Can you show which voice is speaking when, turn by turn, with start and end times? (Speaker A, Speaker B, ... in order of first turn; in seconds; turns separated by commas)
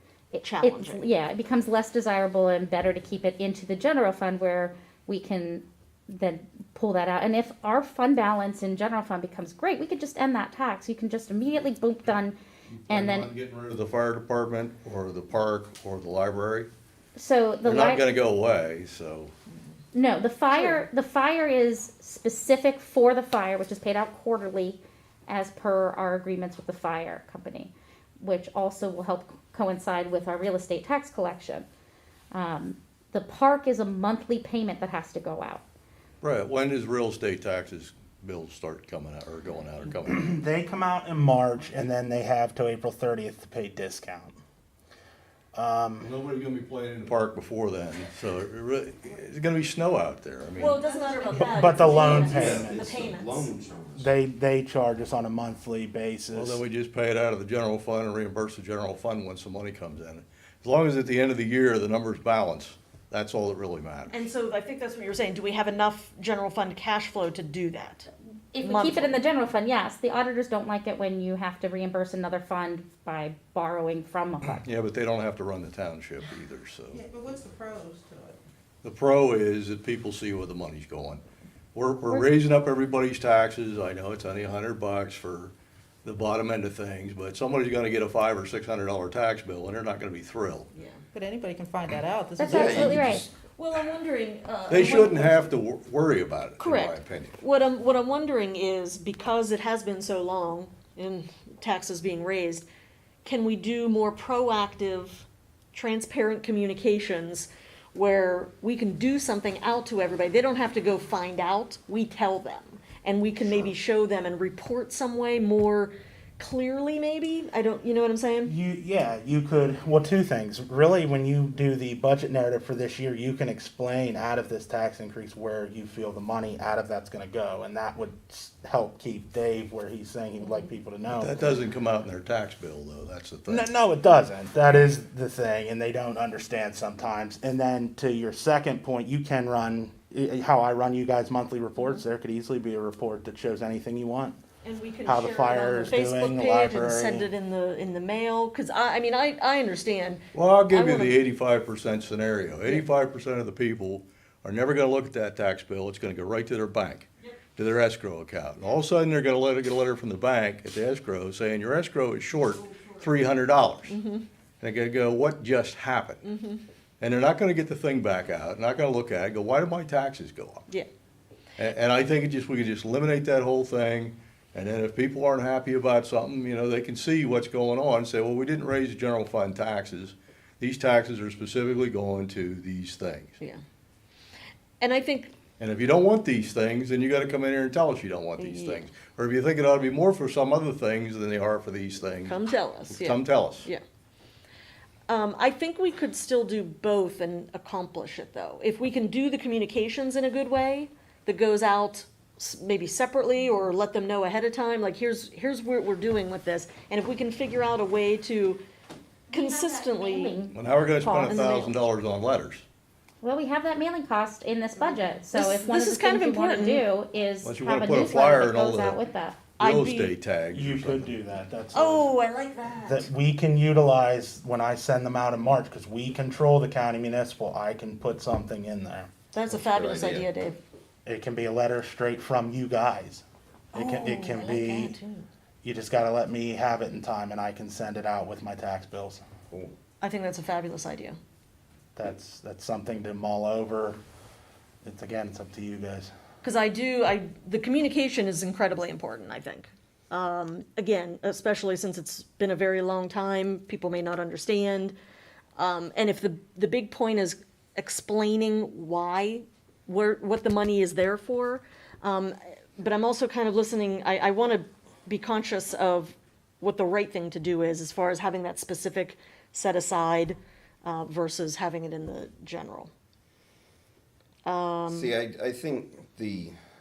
Speaker A: 0.3-12.4, Speaker B: 0.4-1.1, Speaker C: 12.7-16.7, Speaker A: 12.9-13.3, Speaker A: 17.1-18.0, Speaker C: 17.6-19.3, Speaker A: 19.9-31.7, Speaker A: 32.3-35.6, Speaker C: 36.2-40.3, Speaker D: 40.0-44.4, Speaker D: 45.5-46.1, Speaker C: 46.0-50.8, Speaker B: 50.5-53.5, Speaker E: 50.9-51.8, Speaker D: 51.4-52.9, Speaker F: 51.9-54.1, Speaker C: 52.4-52.6, Speaker D: 54.0-56.6, Speaker C: 56.3-64.2, Speaker B: 64.1-68.1, Speaker A: 68.5-74.6, Speaker B: 68.6-69.1, Speaker C: 74.6-77.0, Speaker E: 76.9-78.4, Speaker C: 78.8-81.2, Speaker C: 81.7-85.5, Speaker C: 86.0-90.7, Speaker B: 90.7-91.0, Speaker E: 91.1-93.3, Speaker A: 92.4-93.3, Speaker F: 92.5-93.2, Speaker B: 93.6-95.5, Speaker C: 94.7-97.4, Speaker B: 96.6-102.7, Speaker B: 103.2-118.5, Speaker D: 118.4-131.5, Speaker C: 131.1-133.7, Speaker D: 133.5-144.4, Speaker B: 144.6-151.2, Speaker D: 145.1-147.3, Speaker C: 150.3-164.0, Speaker B: 162.7-163.1, Speaker B: 163.9-164.3, Speaker C: 164.6-166.2, Speaker B: 166.2-166.6, Speaker C: 167.0-170.6, Speaker C: 171.6-183.4, Speaker B: 184.8-185.3, Speaker C: 185.6-192.4, Speaker B: 188.4-188.9, Speaker B: 192.2-193.8, Speaker C: 192.9-193.7, Speaker B: 195.1-208.6, Speaker B: 209.3-210.4, Speaker A: 209.3-211.5, Speaker C: 210.5-212.7, Speaker B: 211.3-211.8, Speaker A: 213.2-219.4, Speaker B: 215.3-216.9, Speaker C: 217.4-219.0, Speaker B: 219.6-220.1, Speaker C: 219.6-221.2, Speaker D: 220.5-222.1, Speaker B: 221.7-223.1, Speaker D: 222.9-229.1, Speaker B: 229.3-230.6, Speaker F: 229.5-230.3, Speaker D: 231.1-234.9, Speaker B: 233.7-235.3, Speaker D: 235.6-239.2, Speaker B: 240.0-241.2, Speaker D: 242.0-244.0, Speaker D: 244.8-246.1, Speaker B: 246.4-255.0, Speaker B: 255.6-272.9, Speaker B: 274.4-275.2, Speaker F: 274.9-276.6